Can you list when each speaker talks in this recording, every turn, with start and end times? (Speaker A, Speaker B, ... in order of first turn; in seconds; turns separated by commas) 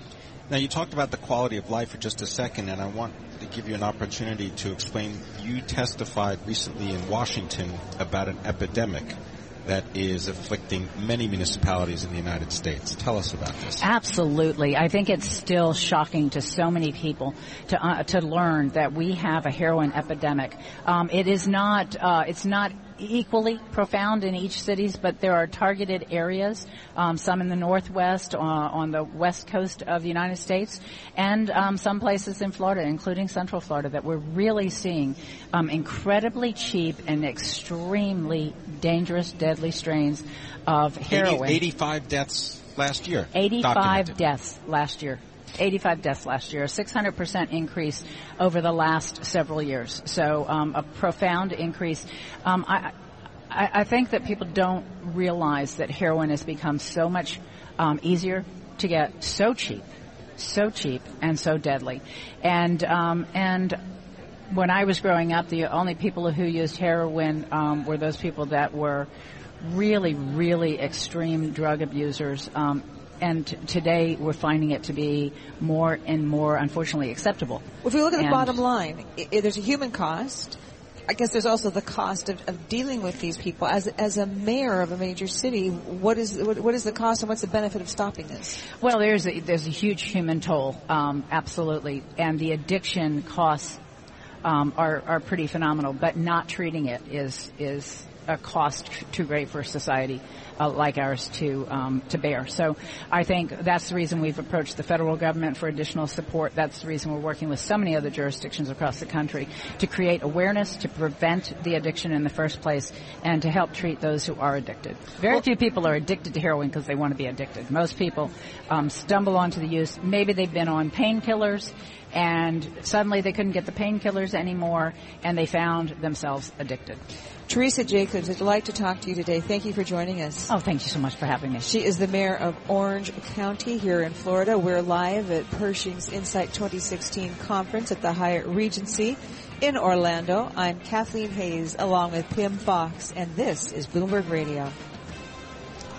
Speaker A: 0.5-13.8, Speaker B: 13.8-41.6, Speaker A: 41.1-44.1, Speaker B: 43.3-52.9, Speaker B: 53.5-59.8, Speaker B: 60.4-63.8, Speaker B: 64.5-69.1, Speaker B: 69.6-77.6, Speaker C: 77.8-80.6, Speaker B: 78.2-78.6, Speaker C: 81.1-88.6, Speaker B: 88.8-93.8, Speaker B: 94.4-127.0, Speaker C: 127.5-130.5, Speaker B: 130.5-131.7, Speaker C: 131.6-144.8